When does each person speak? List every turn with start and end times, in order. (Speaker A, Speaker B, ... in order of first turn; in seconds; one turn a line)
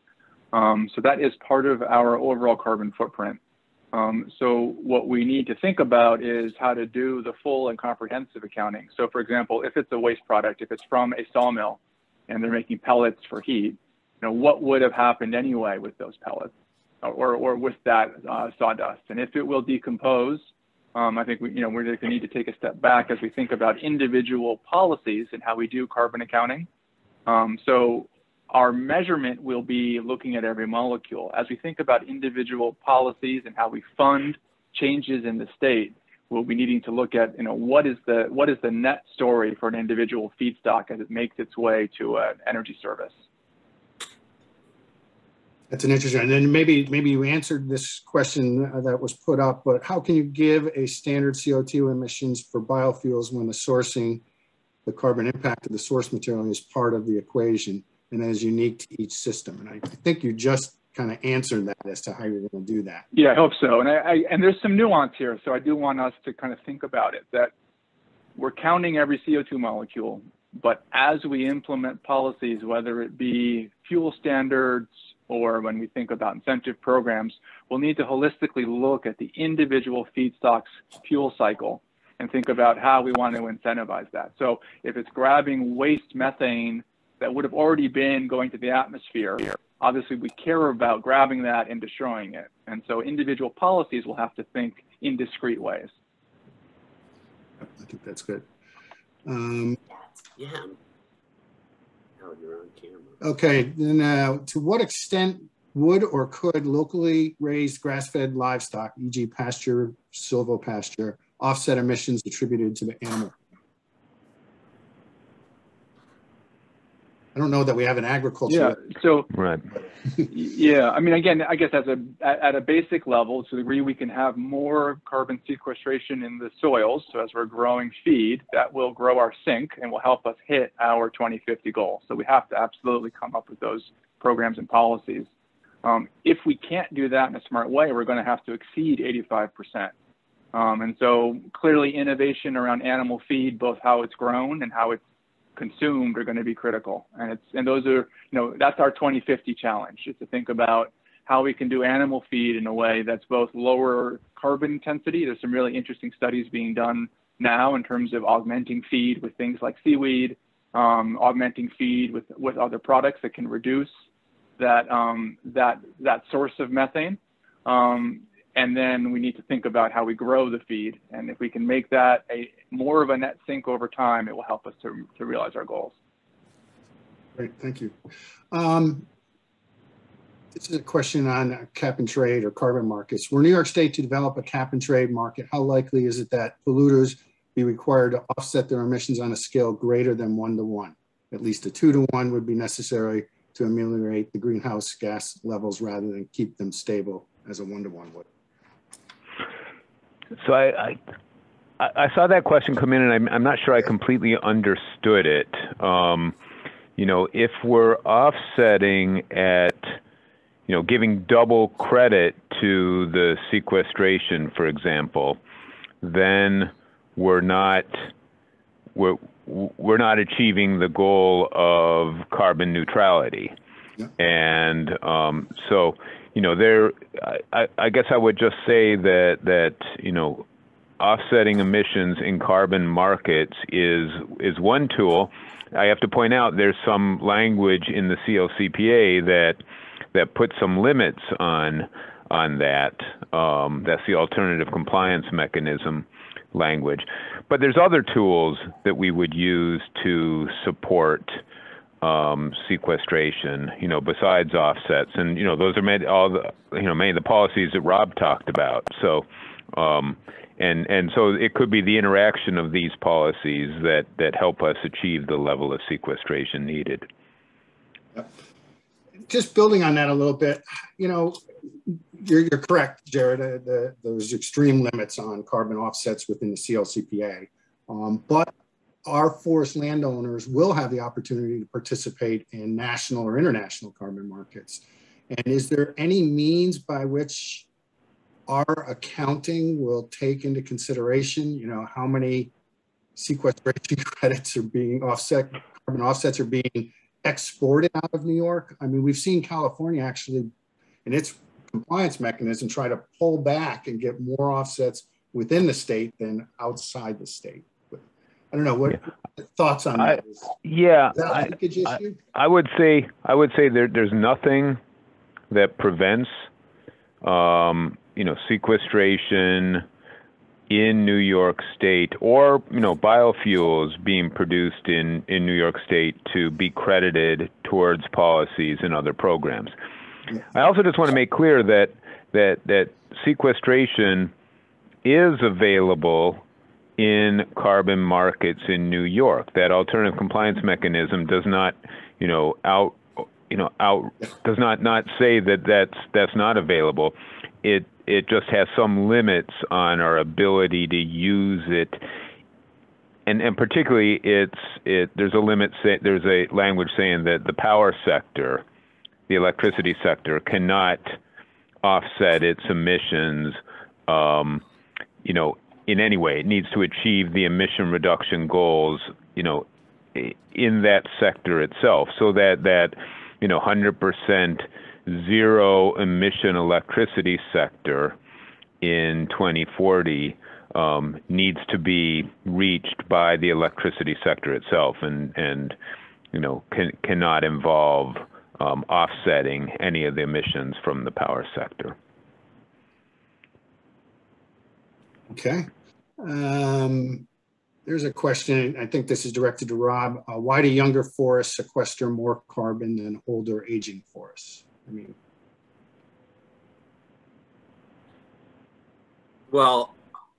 Speaker A: 0.5-3.4
Speaker A: 3.9-20.4
Speaker A: 20.9-26.7
Speaker A: 27.2-43.1
Speaker B: 45.7-54.2
Speaker B: 54.9-63.0
Speaker A: 63.1-67.5
Speaker A: 68.3-95.9
Speaker B: 97.6-98.5
Speaker B: 99.2-99.8
Speaker C: 100.4-100.7
Speaker C: 102.2-103.2
Speaker B: 103.2-113.3
Speaker B: 117.3-118.8
Speaker A: 118.5-119.3
Speaker D: 119.3-119.6
Speaker A: 120.3-135.3
Speaker A: 135.8-139.9
Speaker A: 140.5-145.0
Speaker A: 145.6-163.9
Speaker A: 164.6-175.9
Speaker B: 177.3-177.9
Speaker B: 178.5-179.1
Speaker B: 180.5-198.3
Speaker D: 200.4-201.0
Speaker D: 201.8-206.3
Speaker D: 207.0-210.0
Speaker D: 210.7-215.4
Speaker D: 216.0-218.1
Speaker D: 218.9-223.5
Speaker D: 224.2-230.4
Speaker D: 231.0-239.6
Speaker D: 240.1-251.4
Speaker D: 252.0-267.1
Speaker B: 269.3-278.5
Speaker B: 279.0-287.7
Speaker B: 288.5-292.5
Speaker B: 293.1-300.5
Speaker B: 301.0-310.5
Speaker D: 310.6-314.8
Speaker B: 311.1-312.2
Speaker D: 315.5-316.4
Speaker D: 317.2-319.8
Speaker D: 320.7-329.7
Speaker D: 330.5-334.3
Speaker D: 335.0-336.4
Speaker D: 337.0-352.0
Speaker D: 353.3-358.6
Speaker D: 359.3-361.1
Speaker D: 361.8-364.6
Speaker D: 365.2-378.1
Speaker D: 378.8-385.8
Speaker D: 386.3-391.9
Speaker B: 395.3-397.2
Speaker B: 397.9-405.1
Speaker C: 409.5-410.0